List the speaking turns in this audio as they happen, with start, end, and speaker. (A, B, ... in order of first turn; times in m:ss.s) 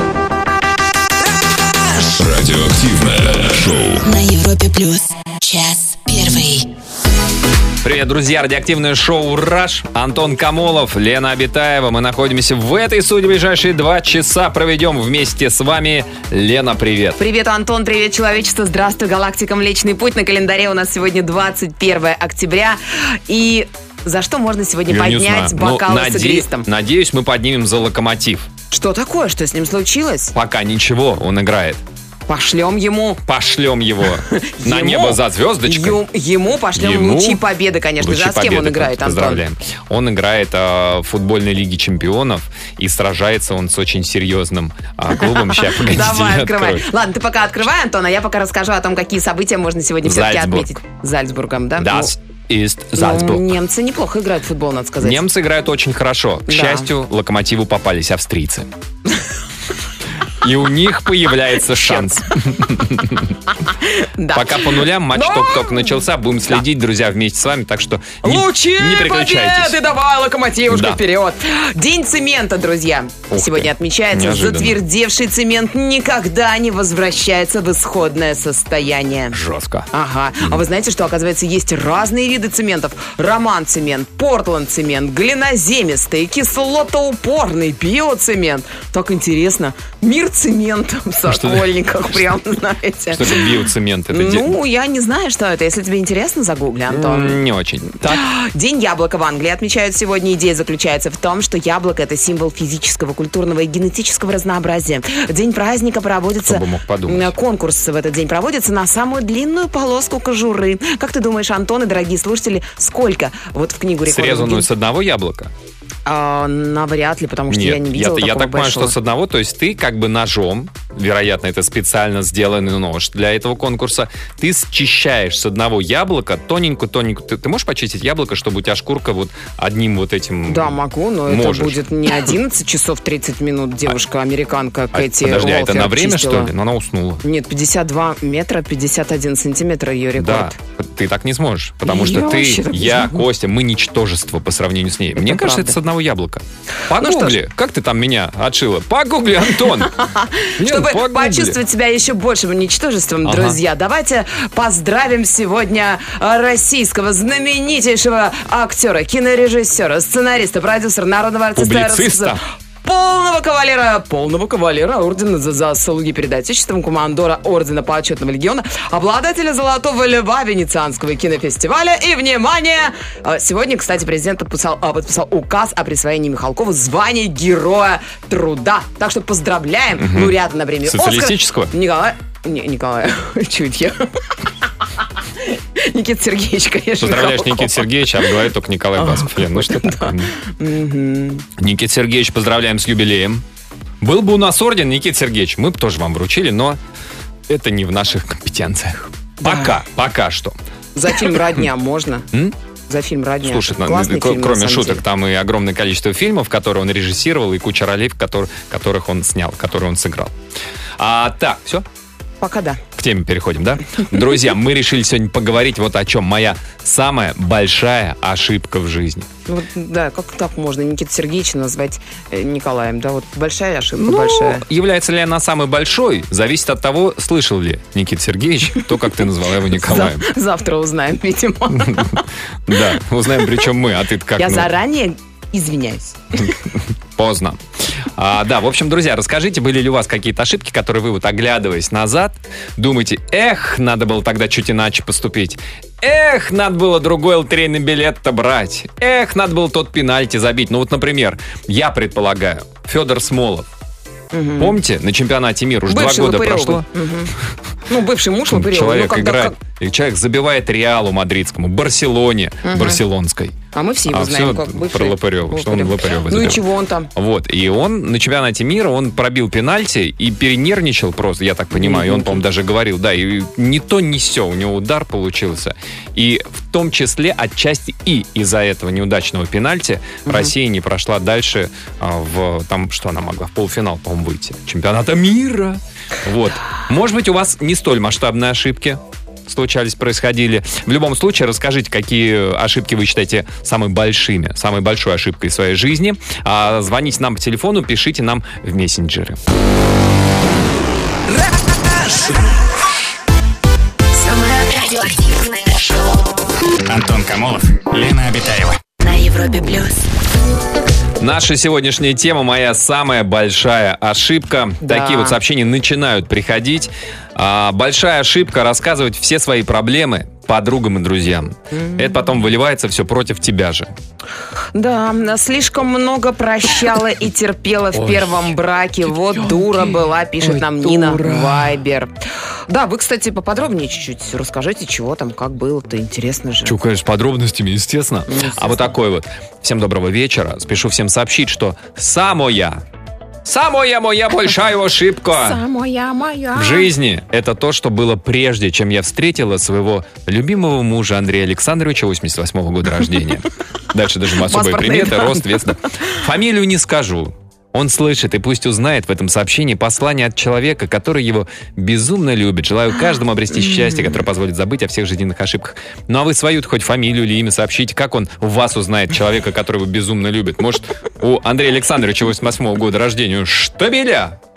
0:02.0-0:04.1 A
0:04.0-0:06.7 B
0:07.8-0:17.2 C
0:17.2-0:26.7 D
0:24.9-0:28.5 C
0:28.7-0:30.4 D
0:30.4-0:31.8 C
0:32.3-0:33.2 D
0:33.3-0:36.0 C
0:34.3-0:39.4 D
0:36.8-0:37.4 C
0:38.0-0:46.9 C
0:45.2-0:52.1 D
0:50.0-0:50.7 C
0:51.8-0:53.6 C
0:53.0-0:55.2 D
0:55.0-0:58.7 C
0:56.5-0:56.9 D
1:00.4-1:03.4 C
1:01.8-1:02.1 D
1:03.6-1:06.6 D
1:04.3-1:09.8 C
1:08.2-1:19.4 D
1:10.7-1:11.0 C
1:13.3-1:14.8 C
1:19.3-1:19.9 C
1:19.9-1:33.6 D
1:31.3-1:32.4 C
1:33.1-1:34.6 C
1:34.1-1:37.4 D
1:36.9-1:38.2 C
1:38.0-1:54.7 D
1:46.4-1:47.4 C
1:54.0-1:55.5 C
1:56.1-1:59.0 D
1:57.5-2:12.1 C
2:10.5-2:16.5 D
2:14.9-2:17.2 C
2:17.2-2:20.6 D
2:20.2-2:29.9 C
2:21.8-2:23.2 D
2:25.2-2:25.8 D
2:27.0-2:27.4 D
2:29.9-3:04.4 D
2:30.6-2:31.6 C
2:33.2-2:33.6 C
2:41.6-2:42.4 C
3:00.0-3:01.7 C
3:05.4-3:08.4 D
3:07.0-3:10.3 C
3:09.0-3:11.5 D
3:11.6-3:13.4 C
3:14.0-3:16.8 C
3:17.5-3:20.6 C
3:19.4-3:19.8 D
3:21.0-3:22.3 D
3:22.9-3:25.0 D
3:23.4-3:30.4 C
3:31.0-3:31.9 C
3:32.4-3:32.8 D
3:33.0-3:39.3 C
3:39.5-3:44.6 D
3:44.0-3:50.2 C
3:49.8-3:52.3 D
3:51.7-3:54.7 C
3:54.4-3:56.6 D
3:56.4-3:57.6 C
3:58.2-4:13.7 C
4:14.3-4:14.8 D
4:14.6-4:16.9 C
4:15.9-4:17.3 D
4:17.9-4:19.6 D
4:18.5-4:26.6 C
4:22.6-4:23.0 D
4:23.7-4:27.1 D
4:27.2-4:59.4 C
4:31.8-4:32.4 D
4:40.3-4:40.5 D
5:04.1-5:06.4 B
5:06.9-5:08.8 E
5:09.0-5:10.0 B
5:11.2-5:23.9 C
5:14.8-5:15.4 D
5:21.7-5:22.0 D
5:24.7-5:32.1 D
5:27.9-5:31.8 C
5:32.7-5:36.8 D
5:36.6-5:42.8 C
5:38.3-5:39.0 D
5:43.4-5:45.6 C
5:45.3-5:46.9 D
5:46.6-6:14.4 C
5:54.4-5:55.6 D
6:03.5-6:04.2 D